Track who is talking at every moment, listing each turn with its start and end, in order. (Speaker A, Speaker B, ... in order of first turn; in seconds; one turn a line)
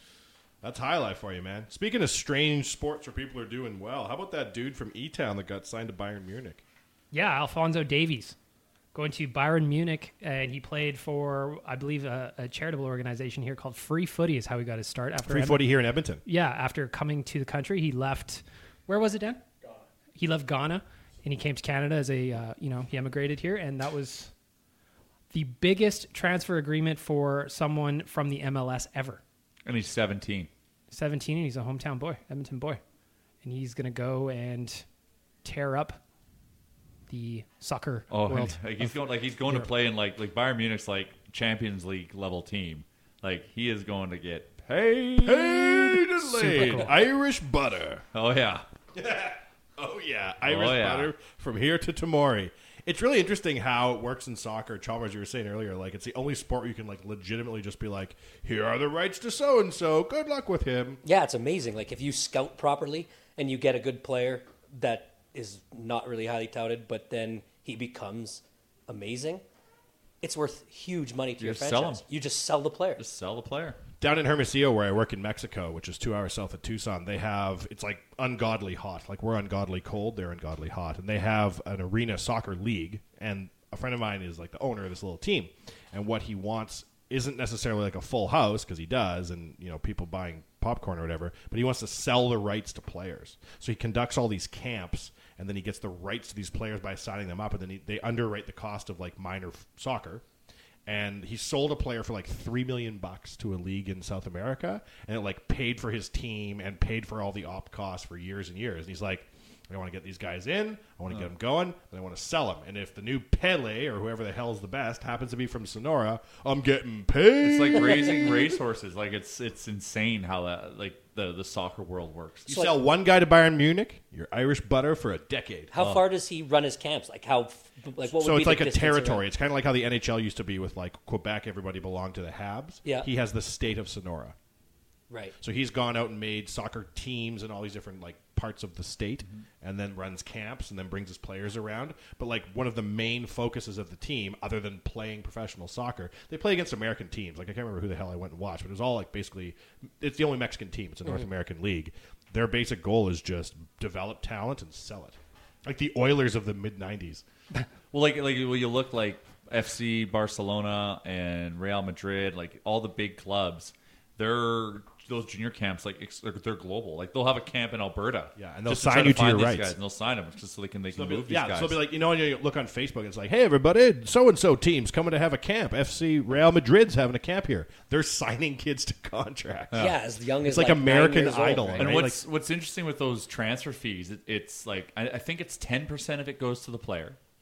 Speaker A: 0.6-6.6
Speaker B: 7.1-8.3
Speaker B: 8.9-15.6
Speaker A: 15.2-16.2
Speaker B: 16.2-19.4
Speaker B: 20.2-24.3
Speaker B: 25.3-29.2
Speaker C: 29.6-30.5
Speaker B: 30.9-32.8
Speaker B: 33.4-34.8
Speaker B: 35.4-36.0
Speaker B: 37.1-39.7
Speaker C: 38.1-46.9
Speaker A: 45.2-48.0
Speaker C: 48.1-48.6
Speaker A: 48.9-61.0
Speaker C: 50.5-51.1
Speaker D: 61.0-69.4
Speaker D: 70.2-73.0
Speaker C: 71.4-72.0
Speaker C: 73.0-73.8
Speaker A: 74.0-100.2
Speaker A: 100.8-118.5
Speaker C: 117.4-122.6
Speaker A: 122.5-125.7
Speaker D: 125.7-129.2
Speaker A: 128.1-134.3
Speaker D: 135.1-135.3
Speaker A: 135.4-157.2
Speaker C: 157.9-171.8
Speaker A: 168.3-169.7
Speaker A: 170.9-182.2
Speaker D: 179.8-181.9
Speaker C: 181.8-187.2